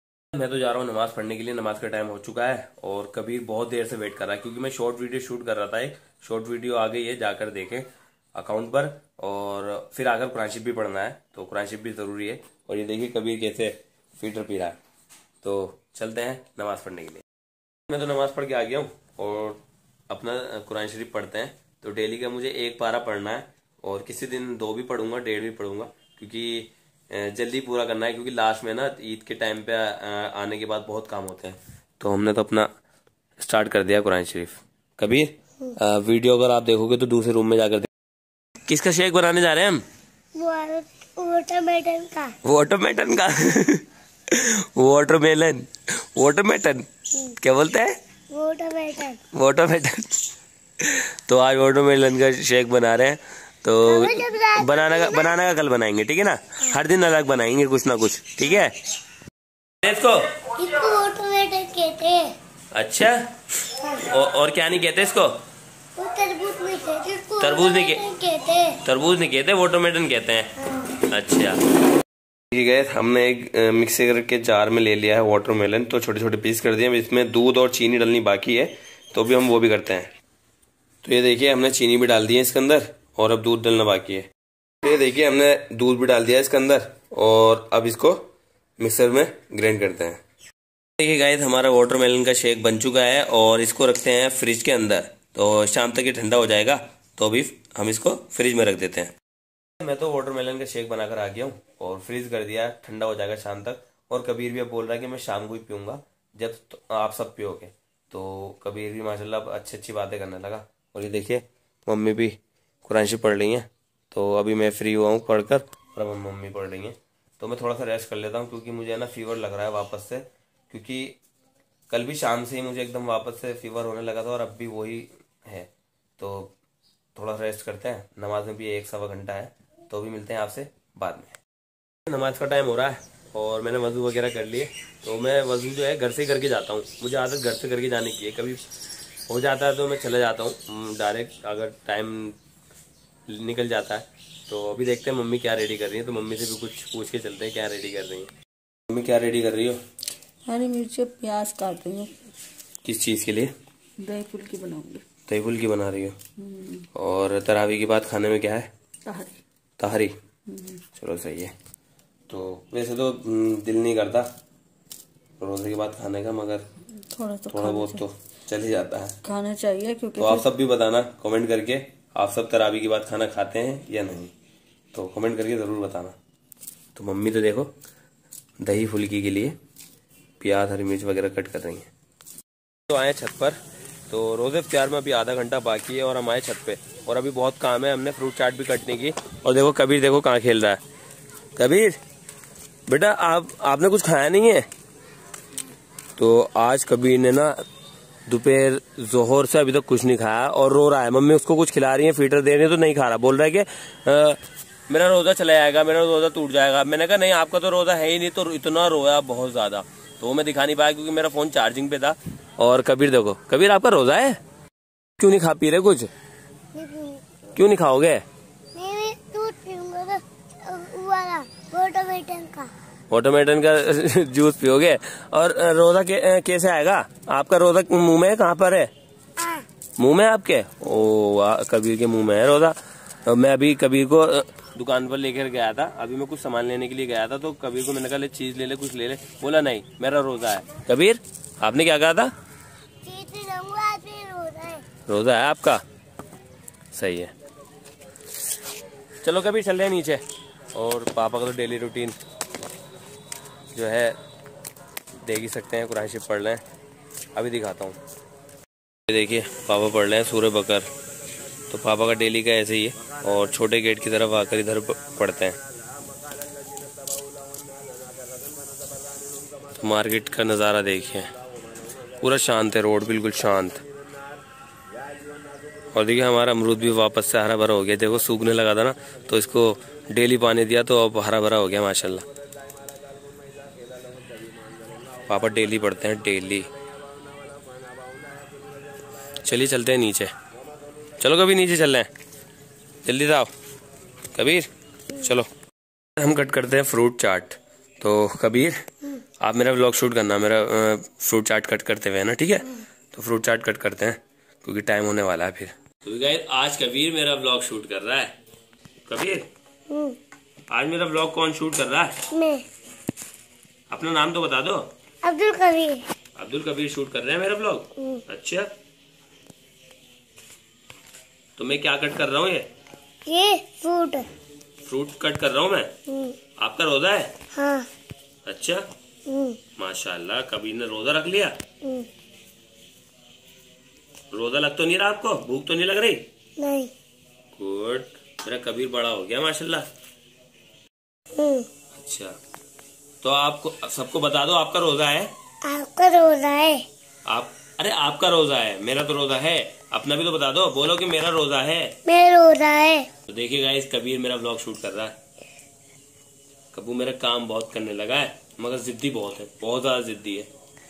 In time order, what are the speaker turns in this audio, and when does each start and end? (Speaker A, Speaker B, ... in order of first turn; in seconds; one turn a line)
Speaker A: 0.3-14.8
Speaker A: 15.4-17.2
Speaker A: 17.9-32.7
Speaker A: 33.4-37.9
Speaker A: 38.6-39.8
Speaker B: 40.3-42.4
Speaker A: 42.4-46.9
Speaker A: 47.4-48.0
Speaker B: 48.3-49.2
Speaker A: 49.3-50.2
Speaker A: 50.8-58.9
Speaker B: 53.9-55.3
Speaker A: 59.8-60.4
Speaker B: 60.5-62.4
Speaker A: 62.7-63.2
Speaker B: 63.8-64.0
Speaker A: 64.0-65.4
Speaker B: 66.0-68.8
Speaker A: 67.4-68.0
Speaker A: 68.8-71.6
Speaker B: 70.6-70.9
Speaker A: 72.5-80.1
Speaker A: 81.0-84.3
Speaker A: 84.8-88.2
Speaker A: 88.8-90.2
Speaker A: 91.0-99.1
Speaker A: 99.8-121.2
Speaker A: 121.9-126.5
Speaker A: 127.1-131.4
Speaker A: 132.1-138.6
Speaker A: 139.3-142.4
Speaker A: 143.3-148.3
Speaker A: 148.9-149.8
Speaker C: 150.4-152.2
Speaker A: 152.8-153.5
Speaker C: 154.0-155.0
Speaker A: 155.3-156.2
Speaker C: 156.4-156.8
Speaker A: 156.9-158.7
Speaker C: 159.1-159.4
Speaker A: 159.8-160.1
Speaker C: 160.5-160.8
Speaker A: 160.9-161.5
Speaker A: 162.3-164.3
Speaker A: 165.4-166.7
Speaker C: 167.0-168.0
Speaker A: 167.5-169.2
Speaker C: 169.2-170.4
Speaker A: 170.2-174.3
Speaker A: 174.9-176.2
Speaker A: 176.9-177.7
Speaker A: 178.6-179.6
Speaker A: 180.4-181.9
Speaker A: 182.9-183.6
Speaker A: 184.1-190.8
Speaker A: 191.6-192.0
Speaker A: 192.9-194.7
Speaker A: 196.2-197.6
Speaker A: 198.3-214.4
Speaker A: 215.2-216.1
Speaker B: 216.7-217.2
Speaker A: 217.5-218.2
Speaker B: 218.7-222.7
Speaker A: 223.1-228.9
Speaker B: 229.4-229.7
Speaker A: 230.0-242.3
Speaker B: 243.0-244.8
Speaker A: 245.1-245.8
Speaker A: 246.9-247.3
Speaker A: 249.2-250.2
Speaker A: 250.7-252.2
Speaker A: 253.7-254.2
Speaker A: 255.2-256.6
Speaker A: 257.4-258.0
Speaker A: 259.1-260.9
Speaker A: 261.7-265.6
Speaker A: 269.7-271.3
Speaker A: 272.2-273.8
Speaker A: 275.9-282.2
Speaker A: 285.3-286.7
Speaker A: 289.3-290.3
Speaker A: 291.2-292.1
Speaker A: 293.0-293.5
Speaker A: 294.3-295.5
Speaker A: 296.2-308.3
Speaker A: 309.1-309.5
Speaker B: 309.9-310.2
Speaker A: 310.7-312.2
Speaker B: 312.3-312.6
Speaker A: 313.9-314.9
Speaker B: 315.2-316.1
Speaker A: 316.4-318.7
Speaker B: 318.0-318.2
Speaker A: 321.6-322.7
Speaker B: 323.2-324.3
Speaker A: 324.8-326.0
Speaker B: 326.1-326.4
Speaker A: 326.6-327.3
Speaker B: 327.5-327.9
Speaker A: 328.4-328.9
Speaker B: 329.2-329.6
Speaker A: 329.8-331.6
Speaker B: 331.8-332.1
Speaker A: 334.3-336.3
Speaker B: 336.6-336.9
Speaker A: 337.5-339.9
Speaker B: 341.3-341.7
Speaker A: 341.9-342.4
Speaker A: 343.2-345.3
Speaker B: 345.6-346.9
Speaker A: 347.3-352.0
Speaker B: 352.0-353.1
Speaker A: 353.3-355.2
Speaker A: 356.7-360.5